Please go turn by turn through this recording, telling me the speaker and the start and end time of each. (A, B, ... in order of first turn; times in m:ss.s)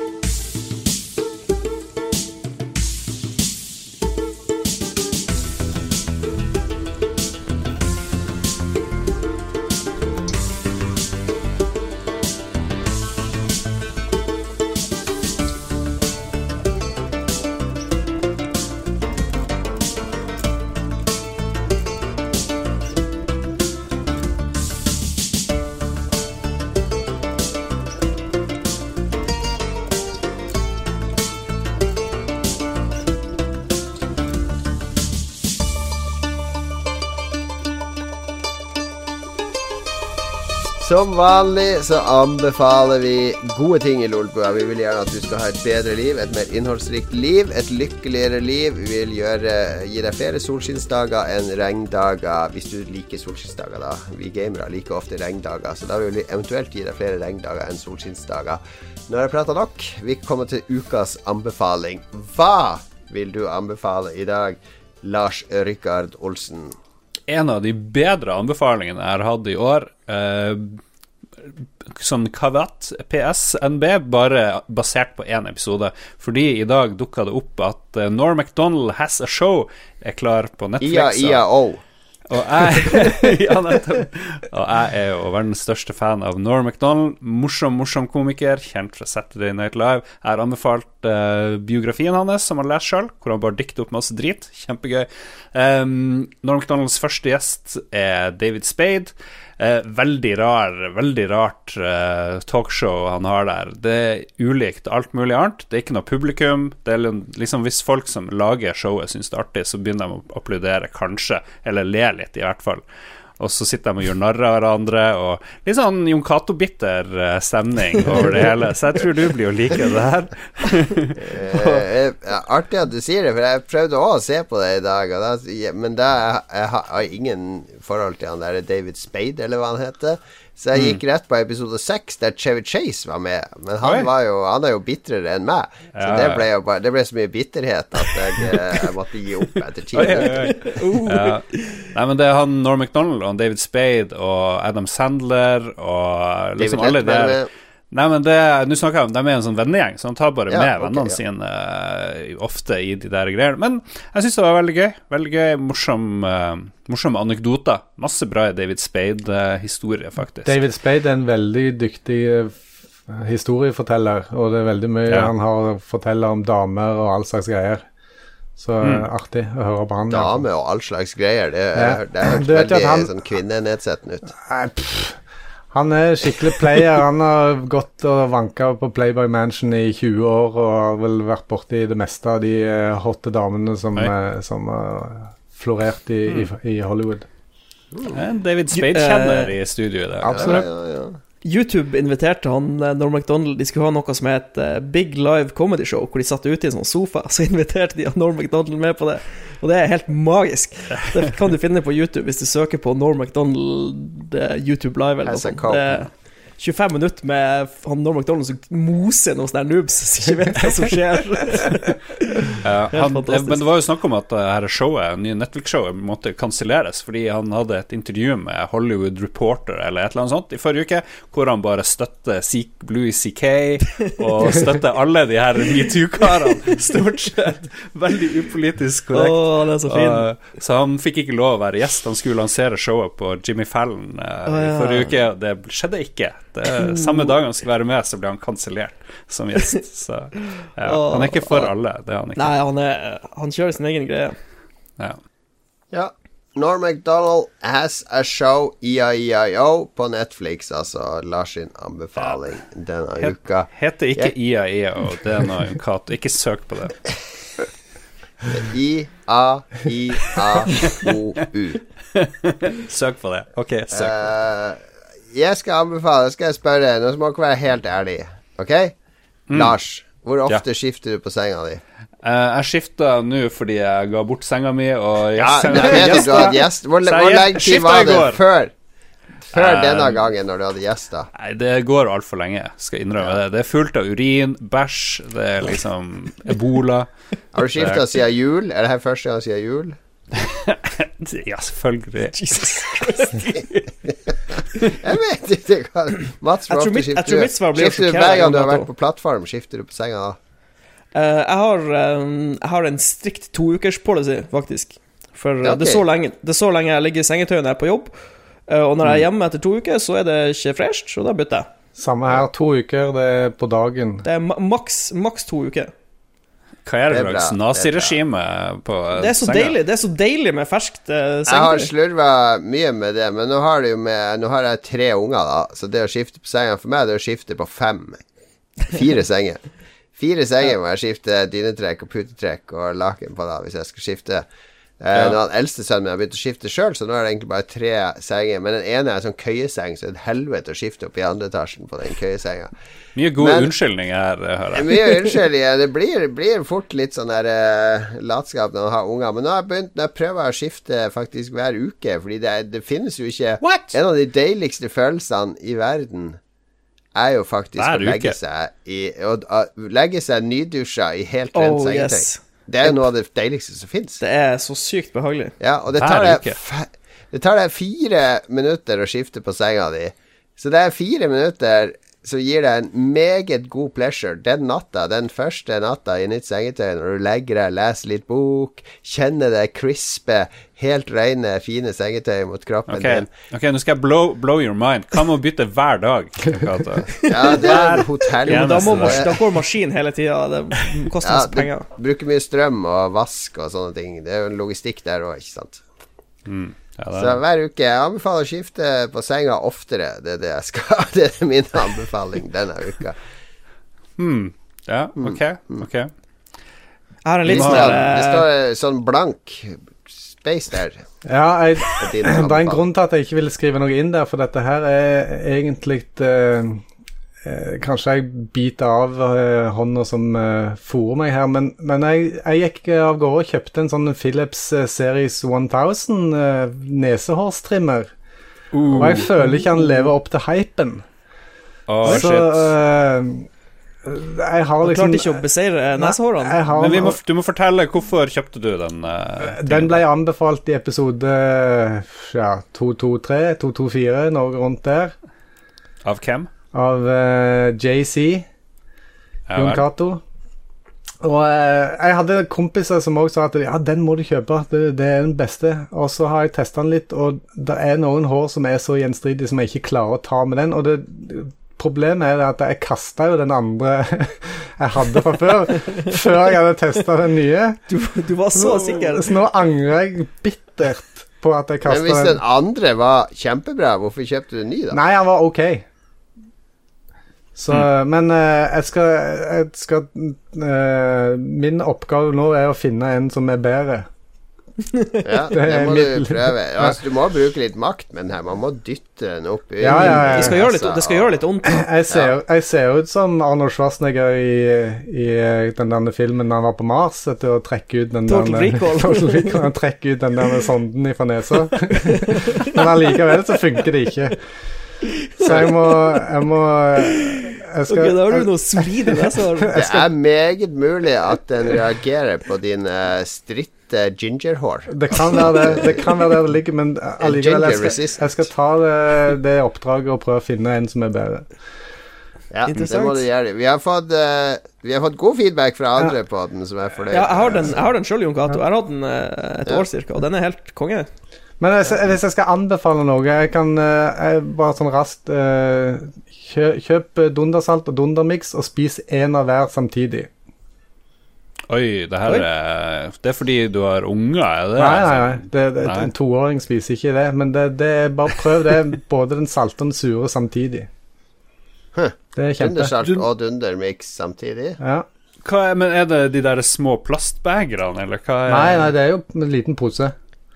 0:40.8-1:06.8 A
1:07.3-1:10.8 B
1:11.8-1:21.4 B
1:20.8-1:21.8 A
1:22.3-1:52.8 B
1:53.4-2:01.8 B
2:01.2-2:20.7 A
2:10.8-2:11.0 B
2:13.8-2:14.1 B
2:16.0-2:16.5 B
2:18.4-2:18.8 B
2:19.9-2:27.4 B
2:20.1-2:21.7 C
2:26.6-2:27.5 A
2:27.9-2:40.6 B
2:30.5-2:31.2 A
2:40.4-2:47.8 D
2:48.6-2:50.4 D
2:48.8-2:49.1 B
2:50.1-2:54.3 A
2:51.8-2:53.1 D
2:54.3-2:55.2 D
2:55.7-3:07.3 D
3:08.1-3:10.7 B
3:08.7-3:09.5 C
3:10.2-3:10.6 D
3:10.3-3:11.2 A
3:11.4-3:33.6 C
3:25.2-3:26.0 A
3:32.6-4:02.5 B
3:49.1-3:50.3 C
3:54.5-3:55.2 C
3:56.8-3:57.3 C
4:00.8-4:01.7 C
4:02.4-4:04.4 C
4:05.9-4:14.3 A
4:13.2-4:17.0 B
4:18.5-4:21.8 A
4:22.2-4:24.2 B
4:23.9-4:24.8 A
4:25.3-4:28.9 A
4:29.5-4:29.8 B
4:29.5-4:31.8 A
4:32.2-4:38.4 B
4:35.4-4:38.7 A
4:39.5-4:41.3 A
4:39.5-4:40.2 B
4:41.4-4:47.1 B
4:47.5-4:50.0 A
4:47.8-4:48.1 B
4:50.4-4:53.8 B
4:52.3-4:53.6 C
4:54.8-5:00.4 A
4:56.7-4:58.9 C
5:01.2-5:08.2 C
5:05.6-5:06.0 A
5:08.7-5:11.7 C
5:12.0-5:14.3 D
5:14.2-5:15.9 C
5:16.8-5:19.8 B
5:17.1-5:18.2 A
5:19.2-5:21.9 C
5:21.5-5:28.2 A
5:28.8-5:34.4 A
5:35.0-5:42.7 A
5:35.1-5:35.4 B
5:43.2-5:45.3 B
5:43.4-5:43.7 A
5:44.7-5:56.4 A
5:53.6-5:54.0 B
5:57.2-6:04.2 A
5:57.8-5:58.4 B
6:01.5-6:03.0 C
6:04.2-6:05.6 C
6:05.6-6:23.3 A
6:06.0-6:06.6 B
6:22.9-6:29.4 B
6:27.2-6:27.8 C
6:27.2-6:29.3 A
6:28.4-6:31.9 C
6:31.2-6:35.8 A
6:36.5-6:37.4 B
6:37.2-6:43.2 A
6:44.2-6:46.1 B
6:45.2-6:45.8 A
6:47.2-6:48.4 C
6:47.5-6:49.8 A
6:47.5-6:48.1 B
6:50.3-6:51.0 A
6:51.2-6:56.8 D
6:51.9-6:52.8 A
6:57.4-7:08.1 D
7:08.7-7:09.3 B
7:08.9-7:11.0 D
7:09.4-7:09.8 C
7:11.9-7:12.7 B
7:12.0-7:13.5 D
7:14.0-7:15.4 D
7:14.8-7:16.6 C
7:16.0-7:17.2 D
7:16.8-7:20.0 B
7:19.4-7:25.1 D
7:26.0-7:26.5 B
7:26.7-7:28.5 D
7:29.5-7:29.9 B
7:29.6-7:30.2 D
7:31.2-7:47.8 D
7:47.9-7:49.3 C
7:48.6-7:52.4 D
7:51.9-7:55.0 A
7:54.9-7:55.9 D
7:57.6-8:04.1 D
8:04.9-8:05.2 C
8:05.2-8:11.3 A
8:05.5-8:07.0 D
8:09.8-8:10.6 D
8:09.9-8:11.8 C
8:11.7-8:24.4 D
8:18.3-8:19.6 C
8:22.0-8:22.9 C
8:25.2-8:26.2 C
8:25.4-8:30.1 D
8:27.0-8:30.0 C
8:29.7-8:36.0 A
8:34.9-8:41.5 D
8:37.2-8:38.4 A
8:42.5-8:47.8 A
8:42.7-8:43.2 C
8:47.1-8:51.1 C
8:51.6-9:00.3 D
9:01.7-9:06.1 B
9:04.8-9:10.9 D
9:12.0-9:14.8 A
9:12.4-9:12.9 D
9:13.0-9:13.3 B
9:14.8-9:15.1 D
9:15.4-9:18.9 B
9:18.5-9:20.2 D